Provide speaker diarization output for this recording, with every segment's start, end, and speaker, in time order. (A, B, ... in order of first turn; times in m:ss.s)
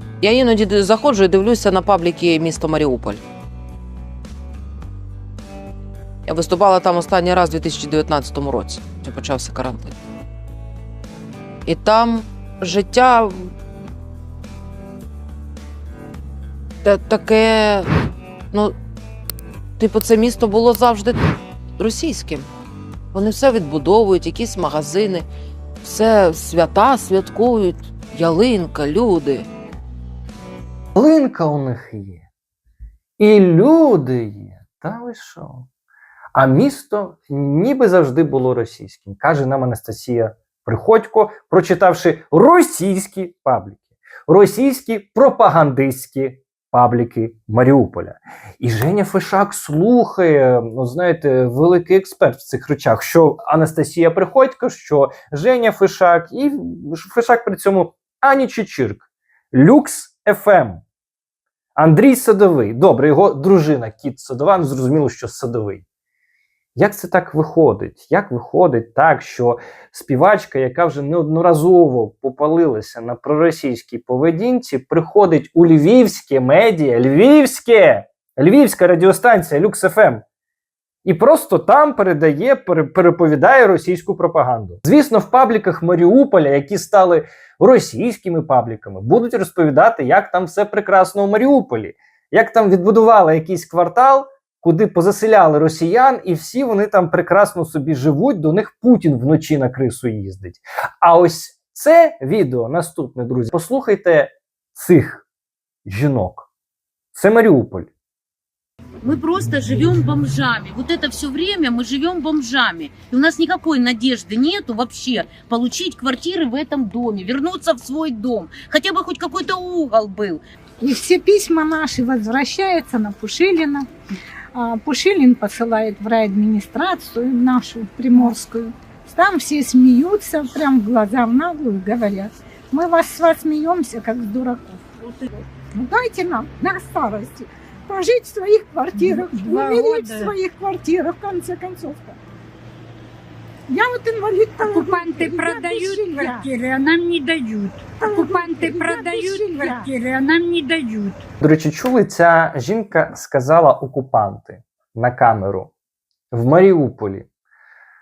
0:00.2-0:03.2 A
0:06.3-0:10.0 A
0:11.7-0:13.5 A
0:16.8-0:17.9 A
0:19.8-0:22.5 A
0:23.1-0:25.3 A
0:25.8-0:29.5 A
0:31.0-0:32.3 B
0:33.2-0:35.7 B
0:36.4-1:00.8 B
1:01.8-1:05.8 B
1:06.8-1:20.2 B
1:21.0-1:45.3 B
1:45.8-1:46.5 B
1:47.1-1:47.9 B
1:49.0-2:00.4 C
2:00.8-2:03.9 D
2:04.5-2:14.8 D
2:15.7-2:22.2 D
2:19.0-2:20.3 E
2:23.7-2:26.5 D
2:24.6-2:31.2 E
2:28.0-2:29.9 D
2:31.4-2:35.7 B
2:36.3-2:37.3 B